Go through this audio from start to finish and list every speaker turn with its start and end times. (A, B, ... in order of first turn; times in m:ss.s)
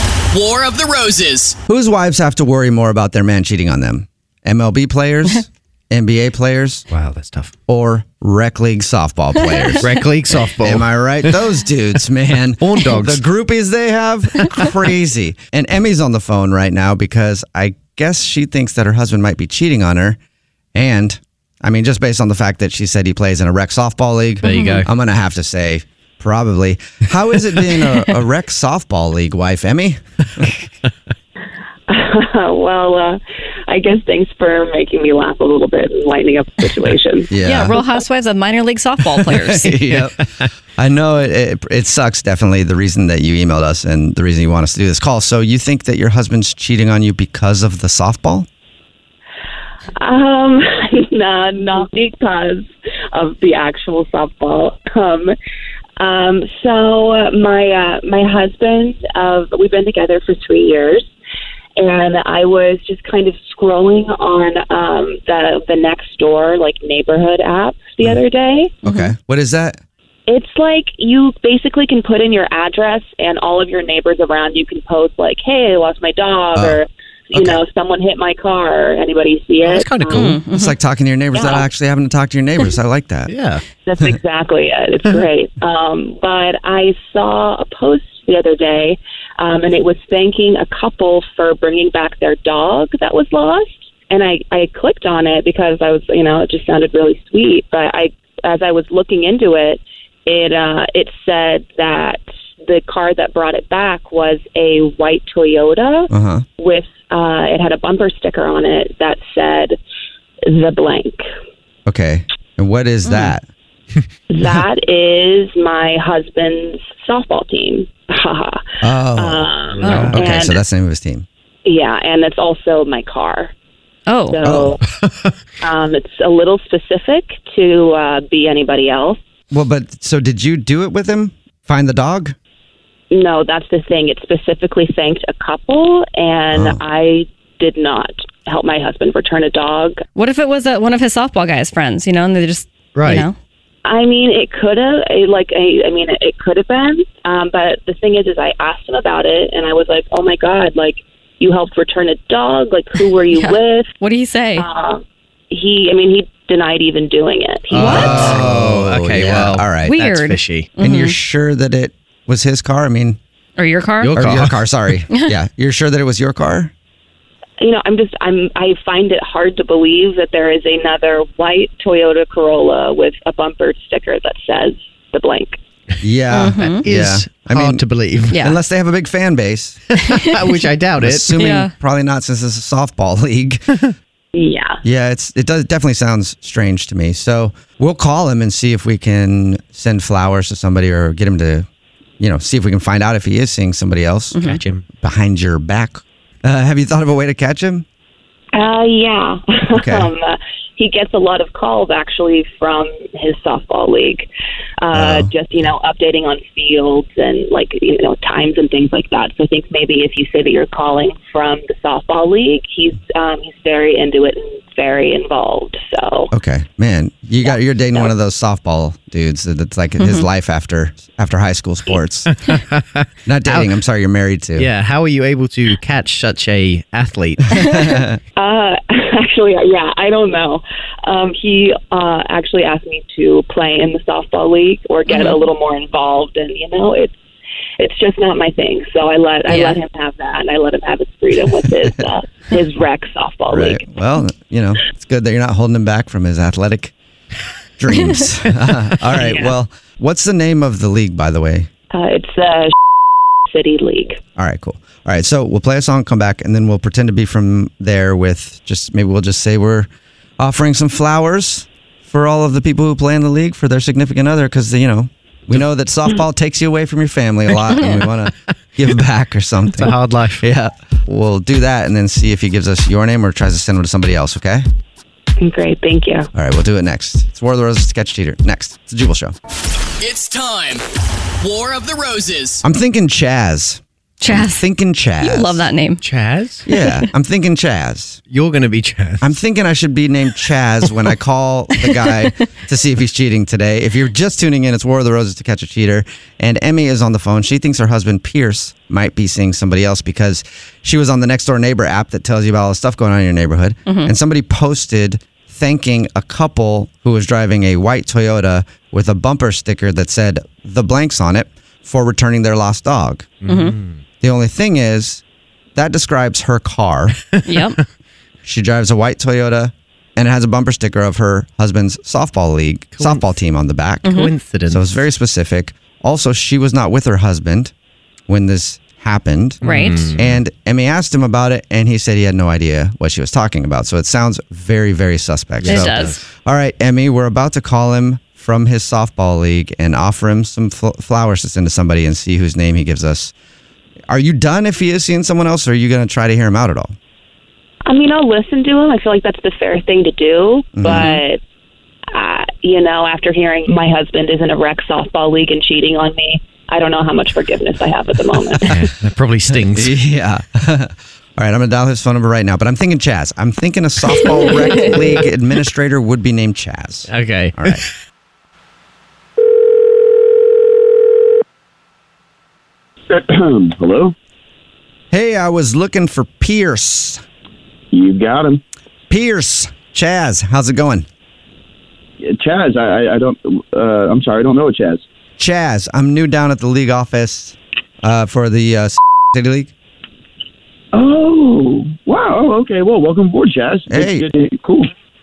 0:00.3-0:01.6 A
0:01.7-0:06.8 B
0:06.9-0:07.5 C
0:07.7-0:09.9 B
0:09.4-0:09.8 D
0:09.8-0:10.9 C
0:10.6-0:20.2 B
0:12.6-0:13.2 C
0:20.7-0:30.5 B
0:24.4-0:24.8 C
0:24.4-0:24.8 D
0:31.9-0:37.3 E
0:37.3-0:37.8 B
0:37.4-0:39.8 D
0:39.3-0:40.2 B
0:39.9-0:40.5 C
0:40.8-0:48.5 B
0:50.0-0:55.3 E
0:56.0-1:01.1 E
1:01.8-1:08.8 E
1:08.8-1:09.8 B
1:08.8-1:09.1 D
1:10.3-1:20.4 E
1:17.3-1:17.6 B
1:19.6-1:20.4 C
1:20.1-1:20.8 D
1:20.4-1:23.3 B
1:21.3-1:21.7 E
1:23.3-1:23.6 C
1:23.9-1:49.8 E
1:46.1-1:46.4 B
1:50.5-1:51.2 E
1:51.8-1:53.4 B
1:53.1-1:53.3 D
1:54.3-1:58.6 E
1:58.8-2:01.2 B
1:59.1-2:00.6 E
1:59.8-2:00.1 C
1:59.8-2:00.1 D
2:01.6-2:03.5 E
2:04.1-2:04.5 D
2:04.3-2:04.8 E
2:04.4-2:04.8 B
2:05.6-2:09.2 E
2:09.5-2:12.4 B
2:13.1-2:20.0 E
2:20.1-2:23.3 D
2:22.9-2:23.3 C
2:23.8-2:33.9 E
2:33.3-2:34.6 D
2:34.5-2:38.3 E
2:37.7-2:40.0 B
2:37.7-2:40.7 C
2:39.9-2:41.2 D
2:40.8-2:43.2 B
2:43.6-2:44.2 D
2:44.0-2:44.6 C
2:44.1-2:46.7 B
2:47.6-2:55.6 E
2:56.0-2:59.8 B
2:56.3-2:56.8 D
2:56.6-2:58.3 C
2:58.3-2:58.6 D
3:00.2-3:01.4 C
3:00.2-3:00.6 D
3:01.0-3:03.6 B
3:01.3-3:01.7 D
3:04.3-3:04.8 E
3:04.8-3:11.7 B
3:12.2-3:14.4 B
3:14.3-3:14.6 D
3:14.4-3:14.8 C
3:15.0-3:17.8 B
3:18.5-3:24.3 E
3:19.7-3:20.1 B
3:24.8-3:36.3 E
3:24.9-3:25.3 B
3:36.3-3:42.3 B
3:37.4-3:38.1 E
3:40.0-3:40.3 D
3:42.3-3:43.7 C
3:43.3-3:44.7 B
3:44.6-3:47.6 C
3:47.7-3:48.2 B
3:48.4-3:57.2 E
3:55.1-3:55.4 D
3:57.8-4:03.8 E
3:59.5-3:59.8 D
4:03.5-4:06.9 B
4:07.8-4:11.7 B
4:07.9-4:08.3 D
4:09.2-4:09.5 E
4:11.9-4:12.7 E
4:13.5-4:14.2 E
4:14.4-4:34.6 B
4:29.8-4:30.4 C
4:35.4-4:36.3 E
4:36.3-4:39.3 B
4:40.0-4:40.8 A
4:41.4-4:42.6 A
4:42.6-4:45.6 B
4:44.2-4:44.7 D
4:45.2-4:46.0 D
4:46.0-4:46.6 C
4:46.7-4:48.2 B
4:48.3-4:49.2 C
4:49.2-5:13.4 B
4:51.8-4:52.3 D
5:03.8-5:04.1 D
5:13.4-5:14.0 C
5:13.5-5:13.8 D
5:14.2-5:15.2 B
5:15.7-5:17.2 B
5:17.3-5:17.7 C
5:17.4-5:17.8 D
5:18.4-5:24.2 B
5:22.9-5:23.3 C
5:24.0-5:24.3 D
5:24.1-5:24.8 C
5:24.7-5:27.7 B
5:28.3-5:43.3 B
5:29.6-5:30.4 C
5:29.6-5:30.2 D
5:35.6-5:36.2 C
5:35.6-5:36.2 D
5:44.1-5:46.9 B
5:47.9-5:51.4 E
5:50.8-5:51.2 B
5:50.9-5:51.2 D
5:52.1-5:58.7 E
5:58.6-5:59.9 C
5:59.7-6:07.8 B
6:04.1-6:05.2 D
6:07.1-6:07.9 C
6:13.1-6:14.1 F
6:15.1-6:17.2 B
6:17.9-6:18.6 F
6:19.1-6:21.0 B
6:22.2-6:25.0 F
6:25.4-6:29.7 B
6:30.9-6:34.9 F
6:33.9-6:34.3 B